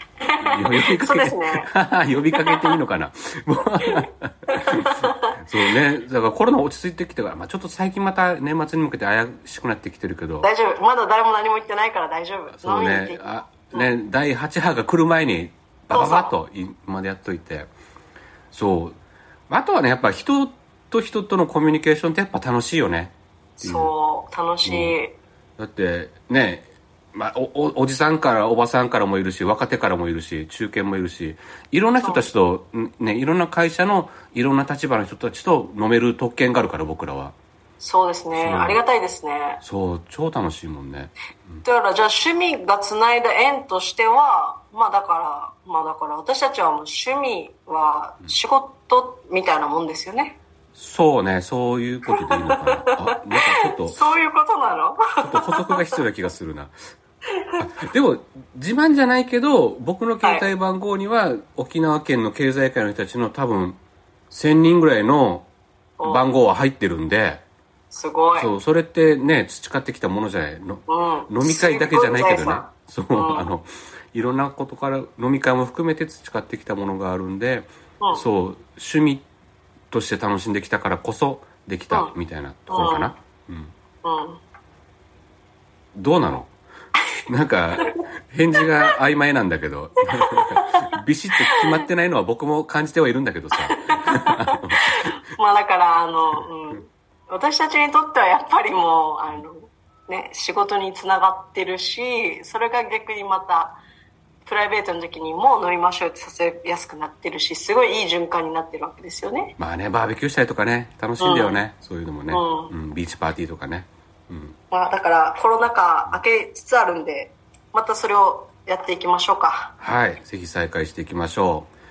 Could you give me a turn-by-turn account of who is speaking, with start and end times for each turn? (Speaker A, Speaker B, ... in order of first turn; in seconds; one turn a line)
Speaker A: 0.2-1.7
Speaker B: 0.4-10.5
Speaker A: 2.3-2.6
Speaker A: 3.8-5.4
Speaker A: 10.4-13.9
Speaker B: 12.5-17.7
Speaker A: 15.9-16.3
Speaker B: 18.5-19.0
Speaker B: 19.5-23.9
Speaker A: 23.6-25.2
Speaker B: 24.6-25.0
Speaker B: 25.6-37.4
Speaker A: 32.0-32.3
Speaker A: 37.8-39.6
Speaker B: 38.3-38.8
Speaker B: 39.6-41.6
Speaker A: 41.6-50.4
Speaker B: 50.8-54.1
Speaker A: 52.3-55.7
Speaker B: 55.2-56.7
Speaker A: 57.4-57.6
Speaker B: 57.6-63.8
Speaker A: 60.2-60.5
Speaker B: 64.3-65.5
Speaker A: 66.0-66.3
Speaker B: 66.0-67.4
Speaker A: 67.9-68.5
Speaker B: 68.3-79.3
Speaker A: 70.9-73.5
Speaker A: 78.0-78.3
Speaker B: 79.9-83.7
Speaker A: 82.7-83.1
Speaker A: 84.0-84.4
Speaker B: 86.0-86.5
Speaker B: 87.3-95.1
Speaker A: 88.6-88.9
Speaker A: 90.2-90.9
Speaker A: 91.4-91.7
Speaker A: 93.7-103.8
Speaker A: 104.5-109.5
Speaker B: 109.6-114.6
Speaker A: 111.2-111.6
Speaker A: 112.3-112.7
Speaker A: 114.7-119.7
Speaker B: 119.8-121.7